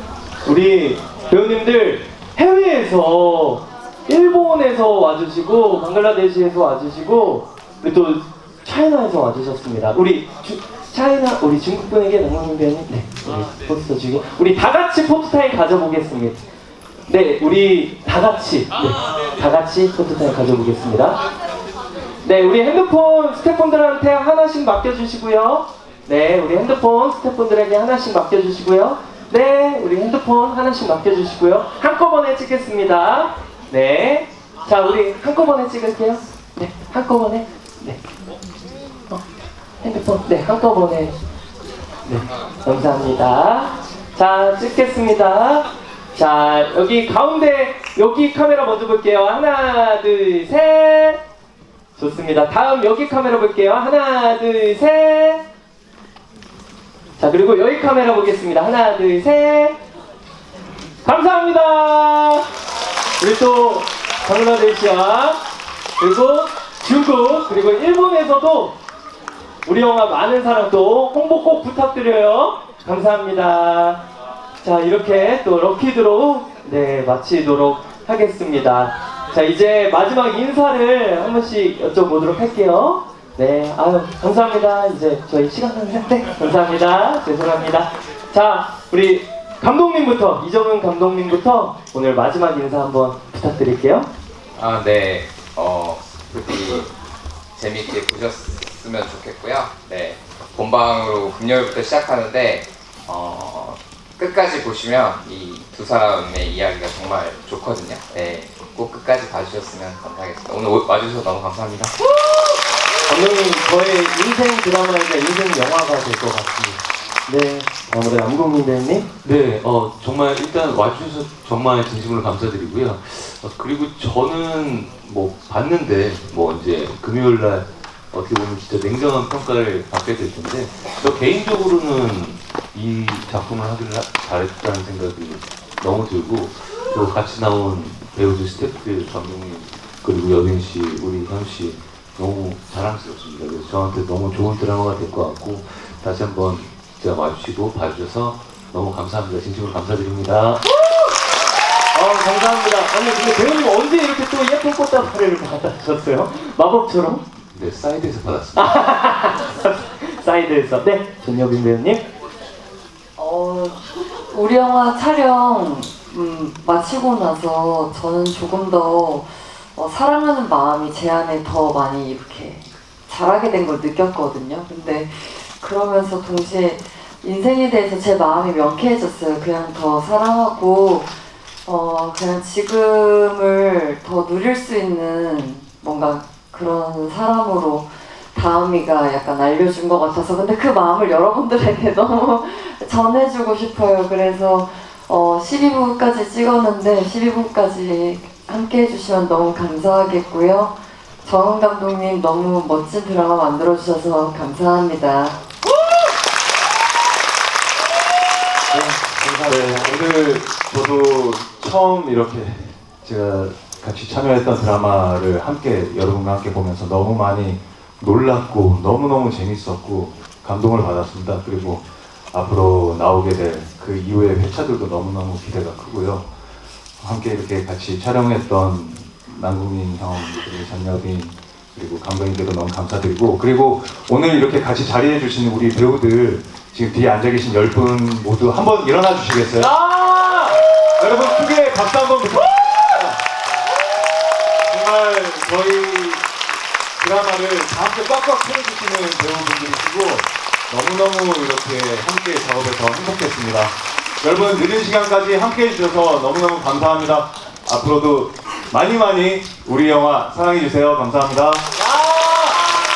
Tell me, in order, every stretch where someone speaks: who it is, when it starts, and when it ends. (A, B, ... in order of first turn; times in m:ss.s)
0:00.4-0:16.4 A
0:17.1-0:21.2 A
0:22.2-0:38.0 A
0:39.8-0:41.1 A
0:42.0-0:51.2 A
0:52.0-0:55.4 A
0:57.2-0:59.8 A
1:01.0-1:02.5 A
1:03.2-1:05.4 A
1:06.0-1:08.7 A
1:09.6-1:14.0 A
1:14.6-1:34.1 A
1:34.5-1:36.9 B
1:37.6-1:51.9 B
1:53.1-1:59.1 A
1:59.2-2:30.6 C
2:31.9-2:37.2 A
2:37.5-2:38.8 C
2:38.6-2:42.0 A
2:43.2-3:01.1 D
3:01.6-3:25.4 D
3:28.7-3:46.3 E
3:47.0-3:59.7 E
3:59.6-4:00.6 A
4:01.0-4:03.2 E
4:04.7-4:06.2 E
4:07.0-4:21.6 E
4:21.8-4:22.6 A